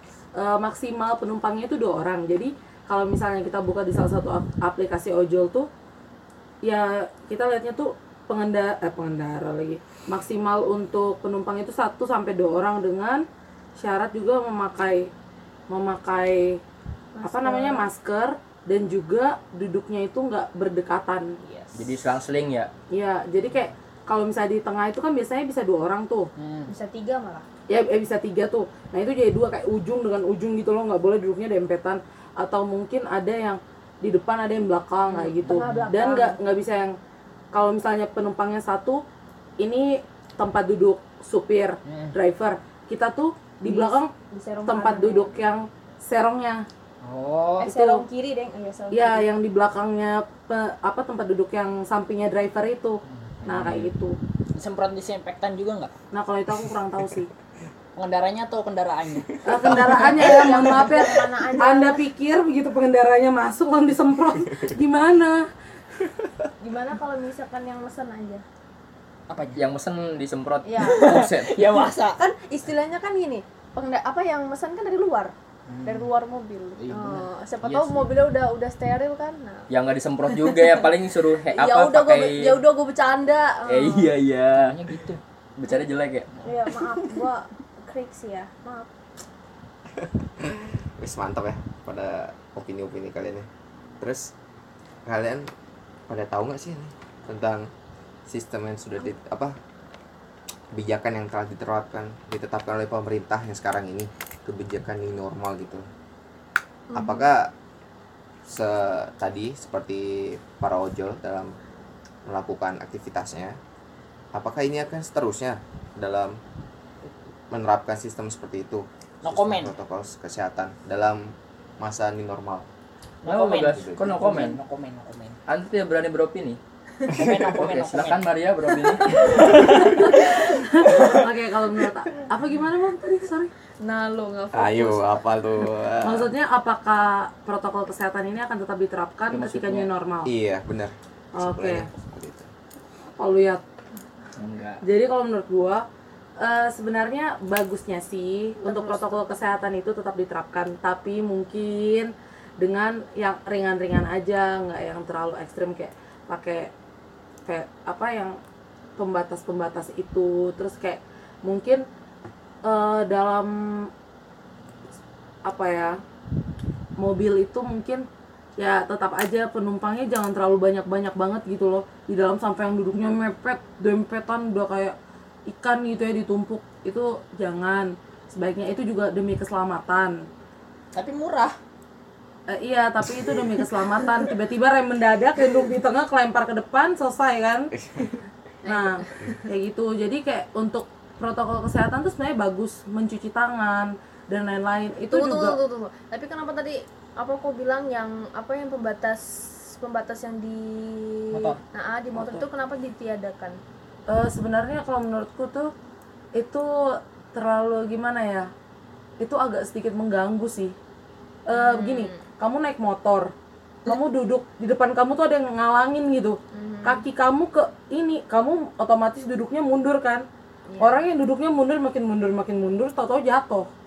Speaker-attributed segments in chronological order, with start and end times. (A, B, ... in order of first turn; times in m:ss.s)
0:00.3-0:05.7 A
0:06.6-0:13.2 A
0:13.8-0:15.1 A
0:15.7-0:16.6 A
0:17.1-0:17.9 B
0:17.2-0:21.4 A
0:21.4-0:21.8 C
0:21.7-0:22.7 D
0:22.9-0:26.3 A
0:26.4-0:26.7 C
0:26.7-0:27.4 B
0:27.7-0:37.0 A
0:35.0-0:36.4 B
0:35.4-0:35.9 C
0:37.5-0:39.0 A
0:39.6-0:44.1 A
0:41.8-0:42.1 C
0:43.6-0:45.4 B
0:44.6-0:46.7 A
0:47.0-0:47.7 C
0:47.6-0:49.3 B
0:47.6-0:48.0 A
0:48.9-0:54.2 A
0:53.1-0:53.8 C
0:53.4-0:53.9 D
0:54.5-0:55.9 C
0:56.1-0:57.3 A
0:58.0-0:59.8 C
0:59.4-1:05.5 A
1:00.1-1:02.1 B
1:06.6-1:08.4 B
1:09.3-1:09.6 C
1:09.6-1:11.8 D
1:10.6-1:11.2 B
1:10.8-1:12.2 C
1:12.2-1:15.3 B
1:15.7-1:16.1 C
1:15.8-1:19.7 B
1:16.8-1:18.1 C
1:19.7-1:22.6 D
1:21.4-1:24.2 B
1:23.6-1:24.8 D
1:24.5-1:25.2 C
1:25.6-1:26.3 D
1:26.4-1:27.0 C
1:26.4-1:28.9 B
1:30.0-1:33.5 E
1:34.0-1:34.3 E
1:35.0-1:35.5 E
1:36.1-1:37.7 E
1:38.3-1:39.6 E
1:40.7-1:45.8 E
1:46.9-1:47.3 B
1:46.9-1:47.5 E
1:48.4-1:51.6 E
1:52.2-1:53.6 E
1:54.3-1:56.4 E
1:57.5-2:02.7 E
1:59.2-1:59.7 C
2:03.2-2:05.4 C
2:03.2-2:04.6 D
2:05.5-2:06.6 D
2:07.0-2:08.3 C
2:07.1-2:09.8 D
2:09.1-2:09.4 B
2:09.3-2:13.5 A
2:13.8-2:15.2 B
2:14.5-2:16.3 E
2:16.0-2:20.3 A
2:19.3-2:19.9 D
2:20.2-2:22.5 E
2:21.3-2:21.9 A
2:23.2-2:23.6 A
2:24.4-2:24.8 D
2:24.8-2:25.8 A
2:26.4-2:36.7 A
2:28.6-2:29.3 B
2:37.4-2:38.4 A
2:39.0-2:41.8 A
2:42.6-2:43.9 A
2:45.4-2:46.0 A
2:47.0-2:48.1 A
2:48.6-2:54.9 A
2:55.5-3:00.3 A
3:00.9-3:01.6 C
3:02.5-3:07.7 A
3:07.8-3:08.0 E
3:08.6-3:09.4 B
3:08.7-3:15.6 A
3:15.1-3:23.6 B
3:21.3-3:21.6 C
3:22.1-3:22.4 A
3:24.1-3:25.7 A
3:26.3-3:28.5 A
3:29.2-3:30.8 A
3:31.5-3:33.3 A
3:31.5-3:32.3 B
3:33.8-3:40.2 A
3:36.5-3:37.0 B
3:40.7-3:41.0 B
3:40.8-3:43.7 A